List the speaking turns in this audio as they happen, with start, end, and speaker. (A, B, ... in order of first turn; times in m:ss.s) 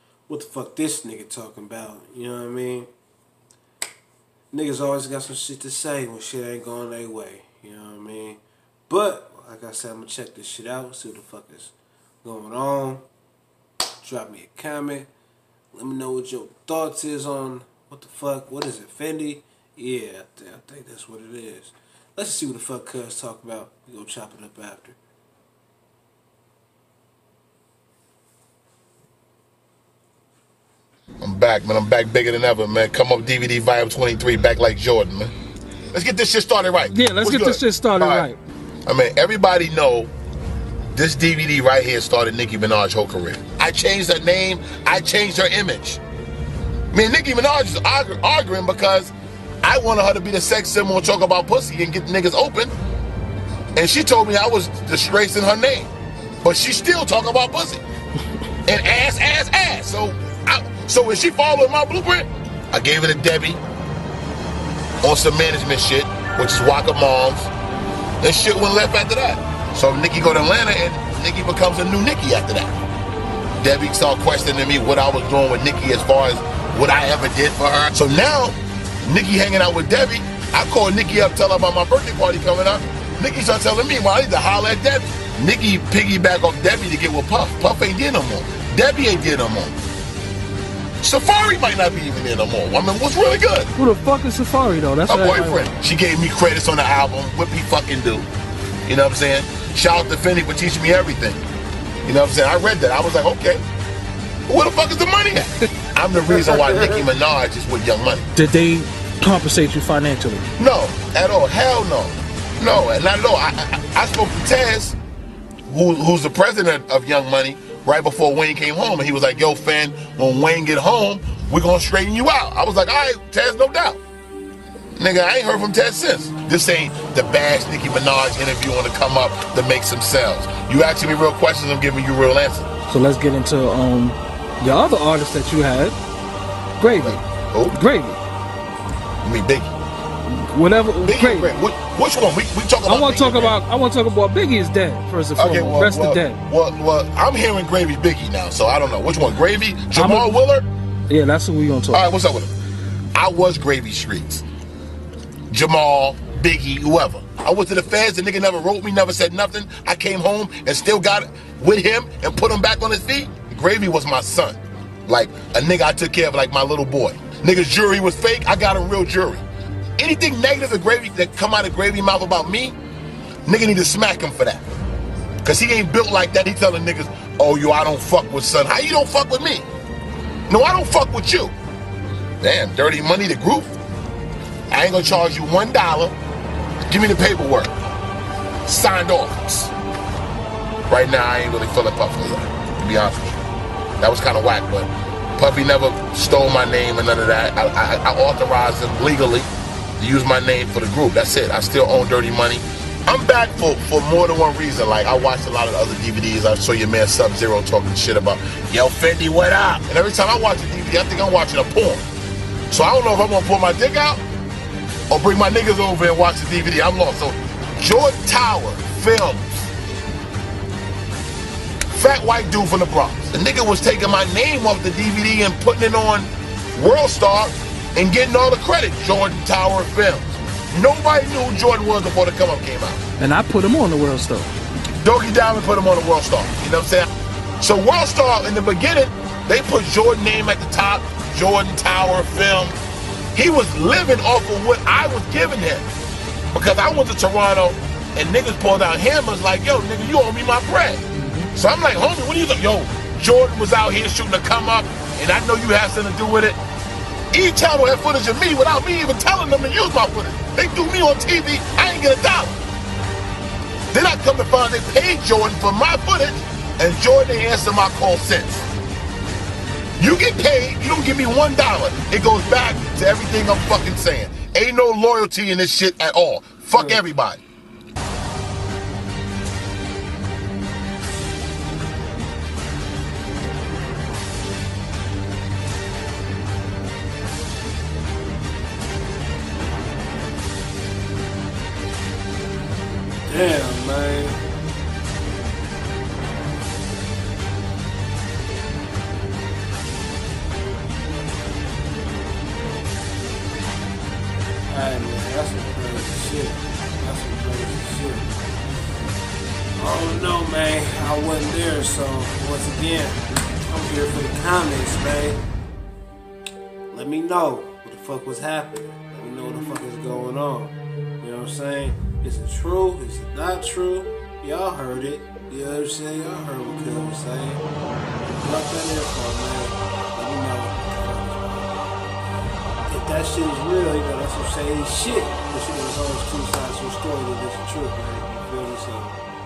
0:00.3-0:02.9 A
0:04.5-0:13.1 A
0:14.0-0:15.1 A
0:15.7-0:25.0 A
0:31.2-0:35.3 B
0:35.9-0:38.3 B
0:36.9-0:38.4 C
0:38.9-0:40.1 B
0:40.9-0:46.0 B
0:46.9-0:52.7 B
0:53.8-0:55.9 B
0:56.4-0:57.8 B
0:58.6-1:03.6 B
1:05.0-1:07.5 B
1:08.2-1:12.7 B
1:13.6-1:29.8 B
1:31.0-1:33.7 B
1:33.7-1:35.7 C
1:35.1-1:38.3 B
1:38.8-1:41.4 B
1:42.0-1:43.6 B
1:44.5-1:48.3 B
1:48.3-1:50.5 C
1:50.6-1:55.0 B
1:55.7-2:04.0 B
2:05.0-2:12.7 B
2:12.9-2:16.0 C
2:16.8-2:18.2 C
2:17.0-2:17.8 B
2:19.2-2:19.7 B
2:20.2-2:21.5 C
2:21.0-2:23.6 B
2:22.8-2:26.4 C
2:25.4-2:30.6 B
2:29.9-2:30.4 C
2:31.1-2:32.1 C
2:31.9-2:32.5 B
2:33.1-2:34.4 B
2:35.5-2:49.4 B
2:50.0-2:52.8 B
2:53.4-2:54.7 B
2:55.4-2:59.6 B
3:00.5-3:01.5 B
3:02.4-3:03.7 B
3:04.7-3:06.1 B
3:06.9-3:07.7 B
3:08.6-3:09.7 B
3:10.9-3:13.4 B
3:14.0-3:32.1 B
3:32.7-3:34.2 B
3:35.1-3:39.7 B
3:41.9-3:53.0 B
3:53.2-3:54.5 C
3:55.0-3:57.1 B
3:57.6-4:02.7 B
4:03.3-4:05.8 B
4:06.5-4:11.0 B
4:11.1-4:11.5 C
4:11.5-4:16.6 B
4:17.3-4:22.6 B
4:23.9-4:28.6 B
4:30.0-4:37.4 B
4:53.2-4:54.4 A
5:04.7-5:08.3 A
5:09.8-5:15.4 A
5:16.9-5:27.6 A
5:28.3-5:31.8 A
5:32.8-5:39.2 A